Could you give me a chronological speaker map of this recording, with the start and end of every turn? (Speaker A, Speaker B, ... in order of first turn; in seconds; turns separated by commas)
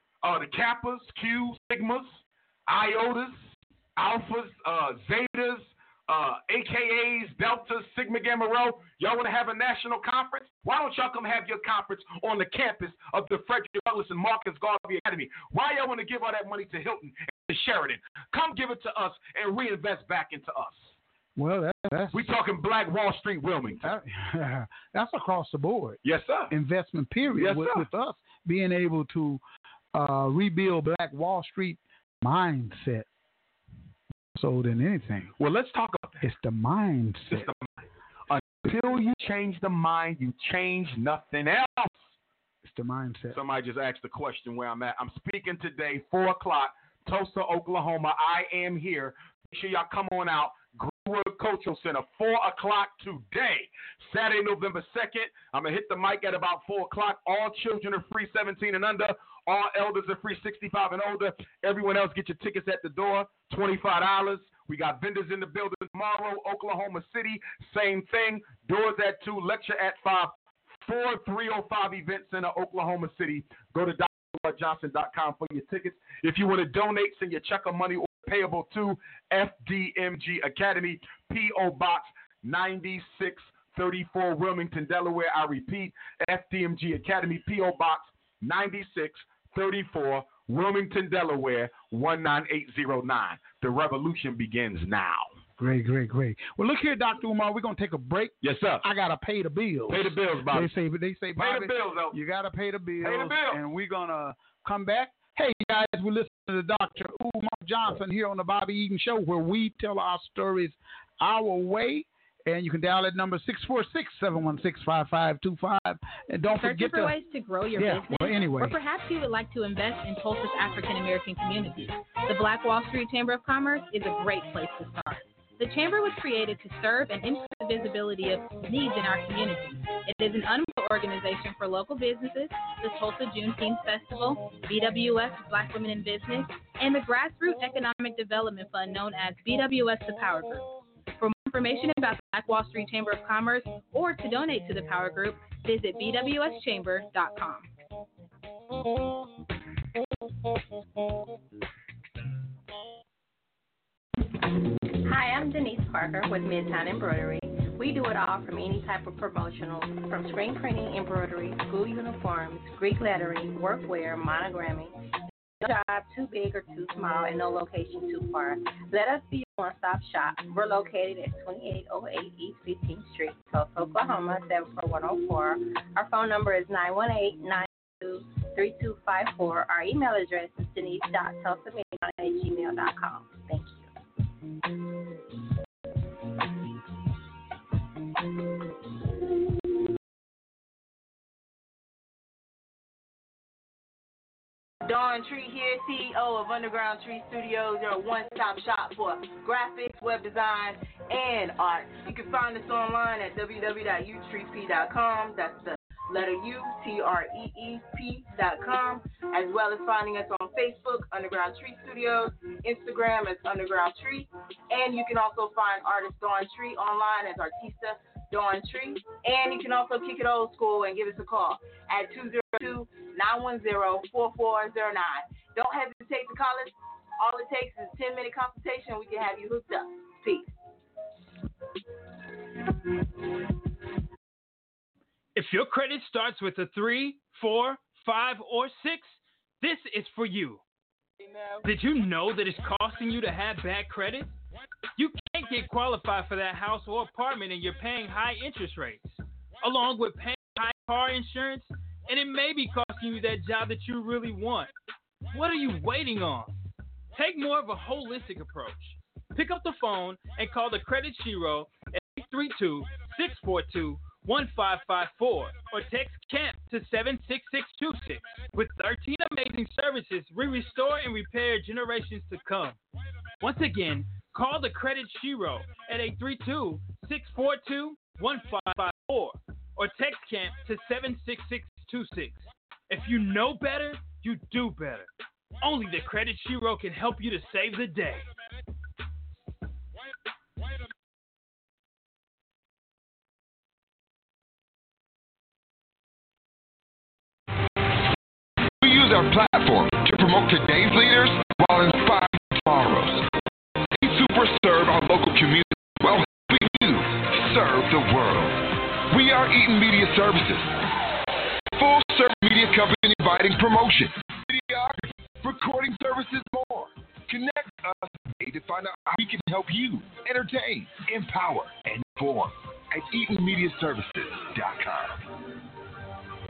Speaker A: 0.2-20.9, Speaker B: 21.4-22.2, Speaker A: 22.1-23.9, Speaker B: 23.8-26.0, Speaker A: 26.0-26.5, Speaker B: 26.5-29.4, Speaker A: 27.4-27.9, Speaker B: 29.9-33.1, Speaker B: 34.4-35.3, Speaker A: 35.4-36.2, Speaker B: 36.2-37.5, Speaker A: 37.3-42.1, Speaker B: 42.6-43.4, Speaker A: 43.3-95.3, Speaker B: 95.6-117.1, Speaker A: 98.4-98.8, Speaker A: 99.9-100.7, Speaker A: 101.4-102.2, Speaker A: 103.0-103.6, Speaker C: 116.6-147.7, Speaker B: 117.8-118.8, Speaker D: 154.8-164.9, Speaker D: 165.6-183.9, Speaker E: 194.8-230.5, Speaker F: 235.3-240.6, Speaker F: 241.6-244.4, Speaker F: 245.0-254.7, Speaker F: 255.3-256.5, Speaker F: 257.1-272.8, Speaker F: 273.4-285.1, Speaker F: 285.6-288.3, Speaker G: 298.6-303.4, Speaker G: 303.9-310.9, Speaker G: 311.8-325.5